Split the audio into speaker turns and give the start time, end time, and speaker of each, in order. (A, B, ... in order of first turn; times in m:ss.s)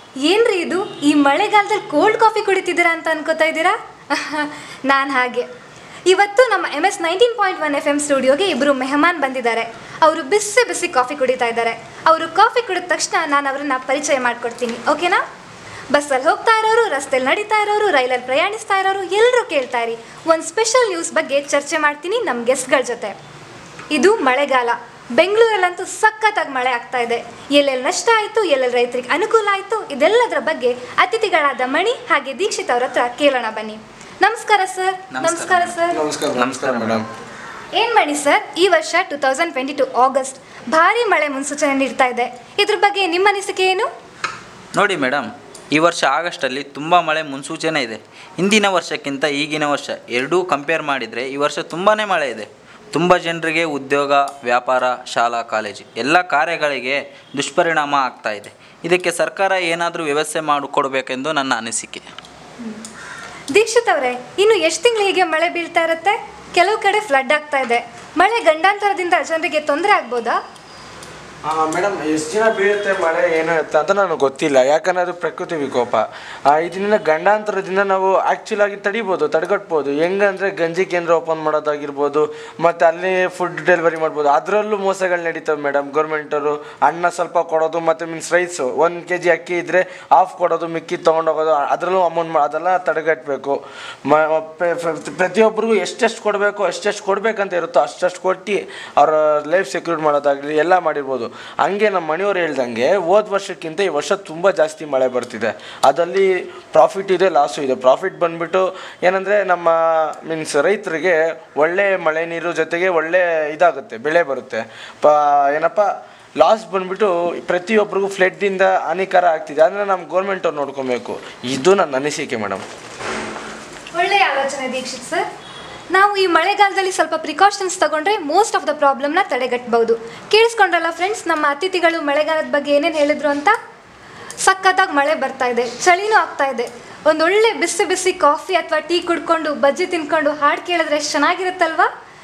0:00.2-0:05.5 A
0:06.1-0:15.2 A
0:15.9-0:23.2 A
0:23.9-0:36.0 A
0:35.1-0:35.8 B
0:35.9-0:37.1 C
0:36.4-0:37.0 B
0:37.8-0:43.9 A
0:44.8-1:02.1 B
1:03.5-1:10.4 A
1:11.4-1:55.9 C
1:56.4-2:02.6 C
2:04.0-2:05.3 A
2:05.9-2:13.6 A
2:14.4-2:21.9 A